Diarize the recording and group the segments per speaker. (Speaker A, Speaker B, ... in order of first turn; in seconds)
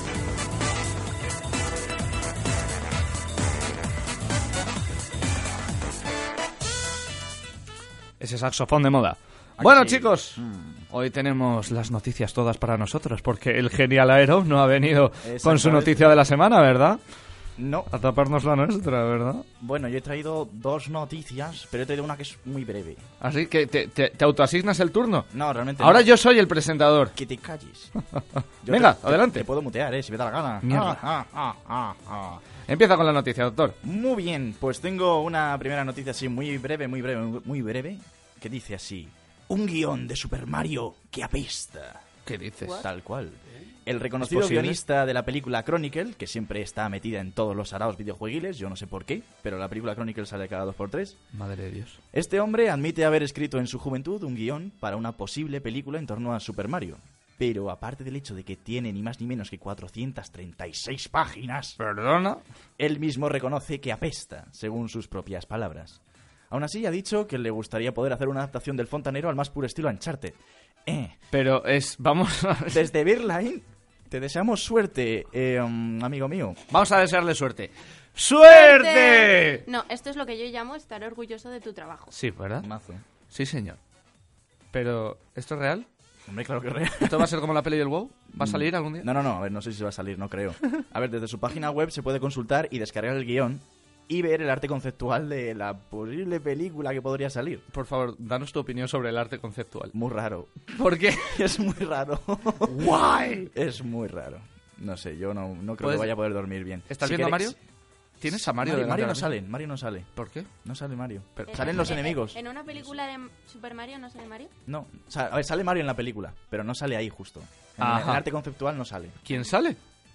Speaker A: 8.2-17.0, 17.9-19.5, 23.2-27.1, 28.1-29.5, 30.6-31.0, 32.7-33.8, 42.2-42.8, 44.2-44.8, 51.3-52.0, 61.8-62.4, 71.3-72.9, 76.7-79.6, 82.1-82.7, 83.3-83.8, 84.7-85.9, 87.0-89.1, 97.7-100.0, 100.7-101.4, 102.6-103.5, 105.8-106.2, 106.9-107.6, 108.2-109.3, 110.2-110.5, 111.4-111.8, 117.8-118.2, 119.2-119.8
Speaker B: 9.6-10.8, 15.2-16.2, 17.6-17.9, 19.6-23.1, 25.3-26.1, 27.1-27.9, 28.6-32.4, 33.8-42.0, 42.8-51.2, 52.1-61.8, 62.8-71.2, 72.7-76.6, 82.6-83.0, 86.3-87.3, 88.4-97.6, 99.9-102.8, 103.5-107.6, 108.3-110.1, 110.6-112.4, 114.7-119.2
Speaker C: 78.5-82.1, 111.5-114.5